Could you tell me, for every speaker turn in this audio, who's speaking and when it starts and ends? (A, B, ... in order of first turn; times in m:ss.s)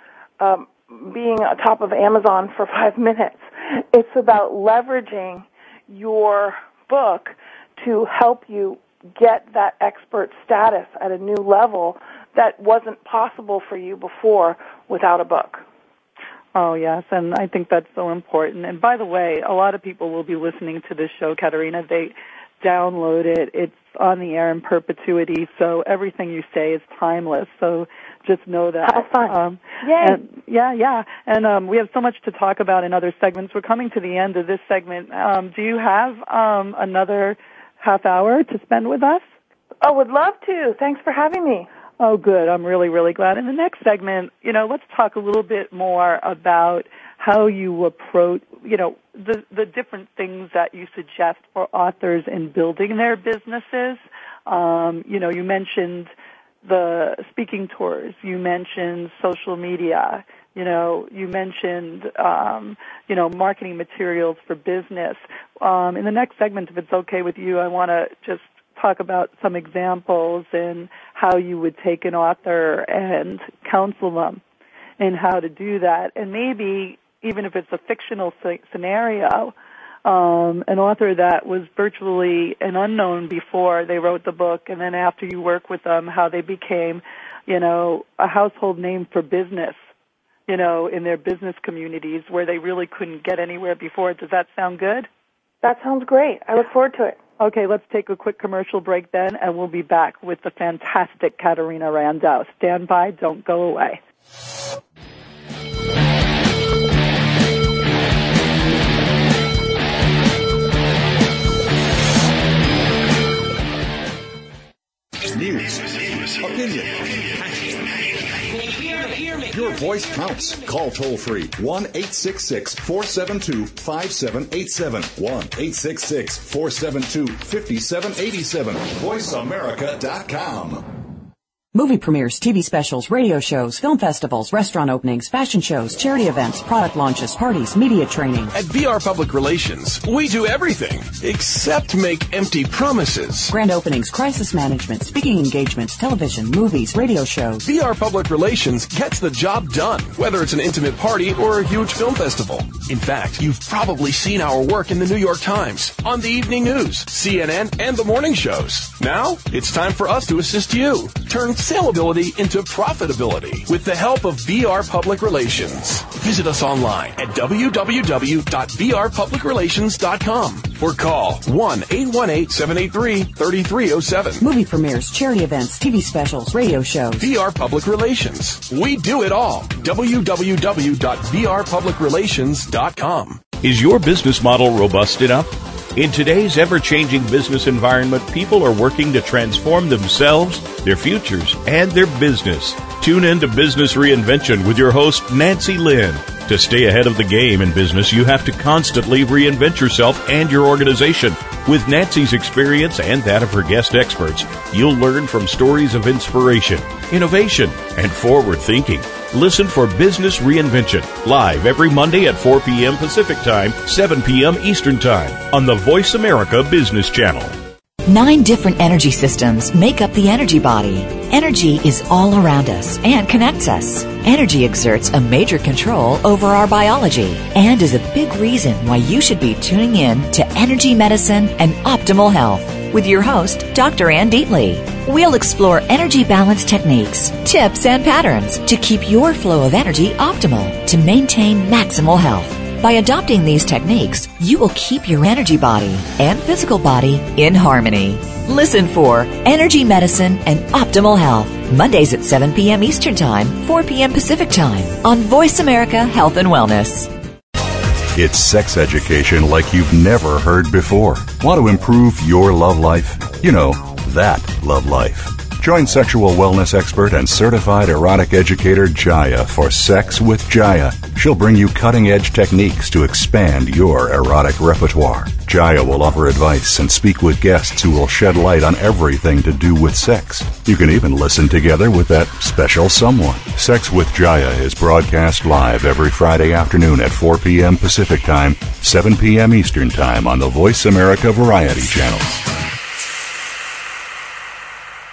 0:00.4-0:15.6 A
0:16.5-0:39.2 B
0:28.8-0:30.2 A
0:39.8-0:41.7 A
0:42.0-0:56.1 B
0:56.6-1:14.4 B
1:15.0-1:29.8 B
1:30.5-1:35.1 B
1:35.6-1:37.2 A
1:37.4-1:44.0 B
1:55.2-1:57.2 C
1:58.8-2:10.9 C
2:11.7-2:18.5 D
2:18.5-2:23.5 E
2:23.5-2:27.6 D
2:27.6-2:54.4 E
2:54.4-2:57.3 D
2:57.2-3:03.4 E
3:03.6-3:37.6 F
3:38.1-4:17.1 G
4:18.1-4:52.4 C